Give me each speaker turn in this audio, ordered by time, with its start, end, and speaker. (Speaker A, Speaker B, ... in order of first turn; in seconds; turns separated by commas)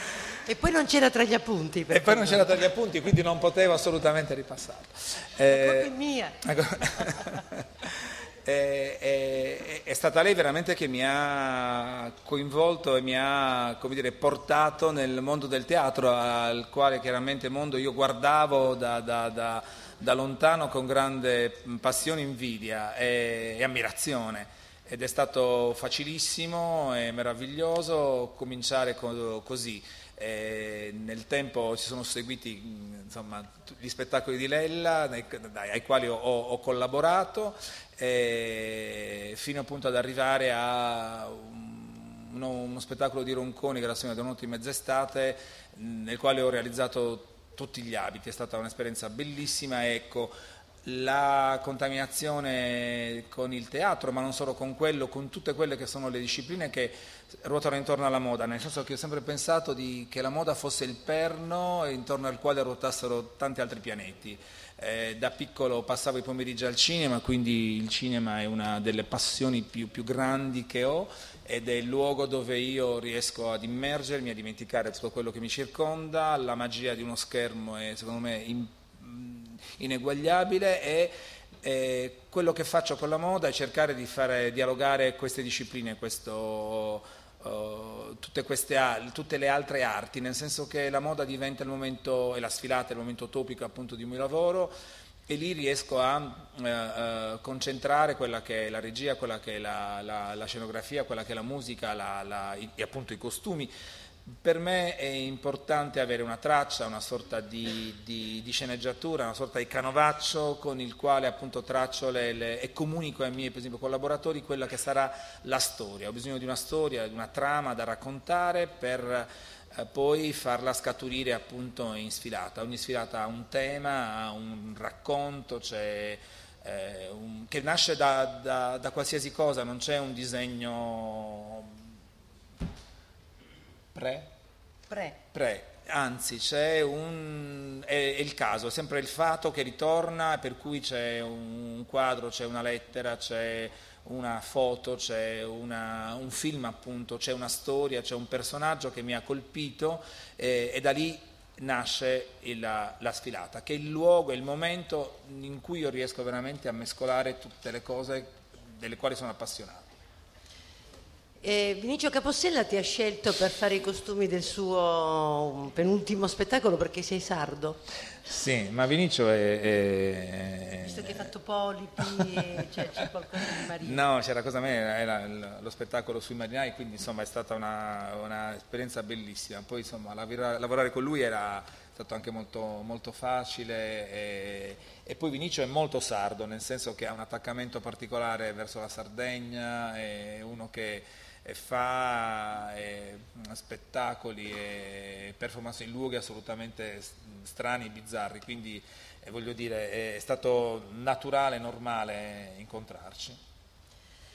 Speaker A: 0.5-2.7, Speaker B: 1.9-94.8, Speaker A: 5.5-6.4, Speaker A: 7.0-7.3, Speaker B: 95.3-103.7, Speaker B: 104.2-131.8, Speaker B: 133.9-134.3, Speaker A: 134.9-135.2, Speaker B: 135.3-159.9, Speaker A: 161.4-167.8, Speaker B: 168.2-171.3, Speaker A: 170.8-174.0, Speaker B: 173.8-203.4